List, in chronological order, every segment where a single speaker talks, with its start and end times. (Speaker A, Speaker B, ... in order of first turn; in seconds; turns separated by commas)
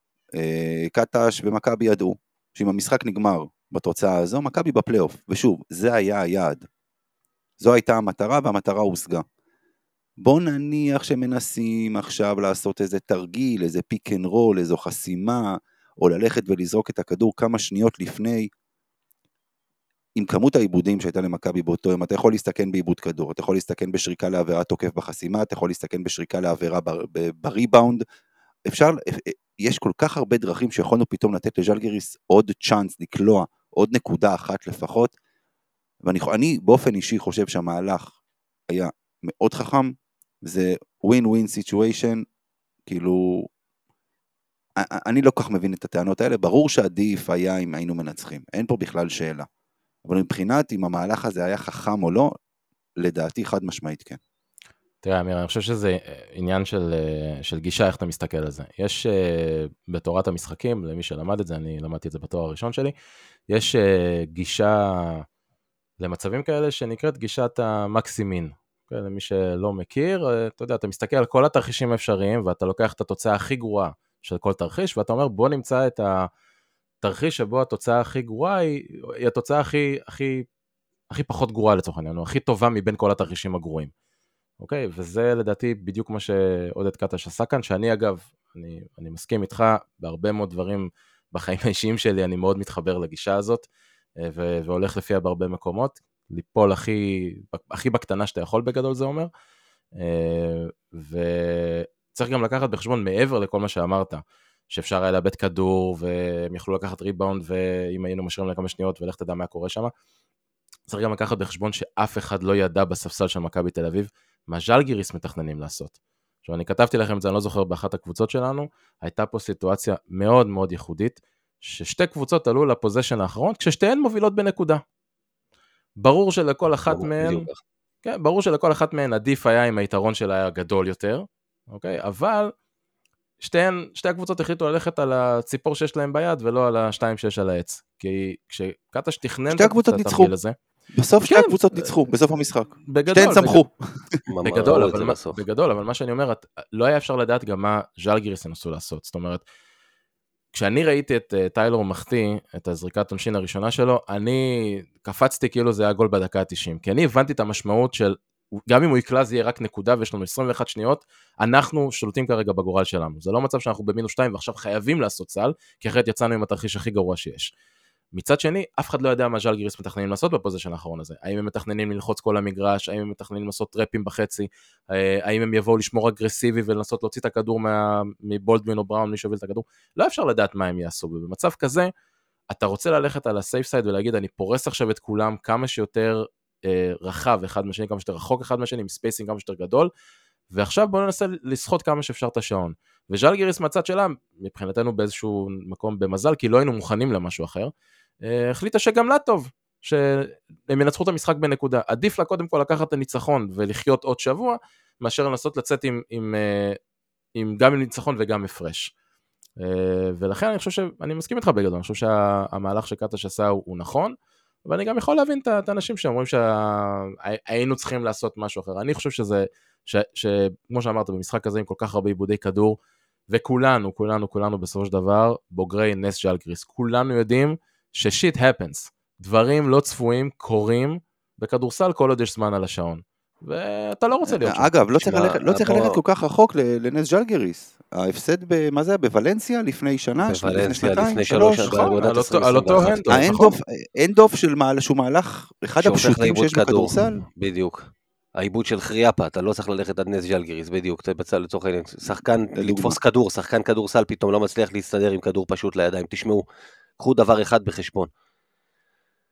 Speaker A: 0.4-6.6, Speaker A: 7.6-9.2, Speaker A: 10.2-18.5, Speaker A: 20.1-28.0, Speaker A: 28.7-35.1, Speaker A: 36.0-38.1, Speaker A: 38.7-39.9, Speaker A: 40.4-42.2, Speaker A: 42.9-43.5, Speaker A: 44.8-49.5, Speaker A: 50.0-52.3, Speaker A: 53.0-54.2, Speaker B: 55.0-62.9, Speaker B: 63.5-65.2, Speaker B: 66.0-76.3, Speaker B: 77.0-80.4, Speaker B: 81.1-83.9, Speaker B: 84.6-93.7, Speaker B: 94.2-99.3, Speaker B: 100.0-109.9, Speaker B: 110.9-124.8, Speaker B: 126.0-127.5, Speaker C: 126.9-127.6, Speaker B: 128.0-132.5, Speaker B: 133.4-140.5, Speaker A: 139.5-140.3, Speaker A: 140.9-143.7, Speaker B: 141.2-142.0, Speaker B: 142.9-143.6, Speaker C: 144.3-145.4, Speaker B: 144.4-149.4, Speaker B: 150.5-158.2, Speaker B: 158.7-167.5, Speaker B: 168.1-181.9, Speaker B: 182.5-189.9, Speaker B: 190.5-197.7, Speaker B: 198.2-206.8, Speaker B: 207.3-208.9, Speaker B: 209.6-222.8, Speaker B: 223.3-234.7, Speaker A: 234.3-241.9, Speaker C: 235.0-236.0, Speaker C: 240.2-243.1, Speaker B: 241.6-243.6, Speaker A: 243.1-247.2, Speaker C: 245.8-256.4, Speaker A: 252.1-253.0, Speaker C: 257.0-258.1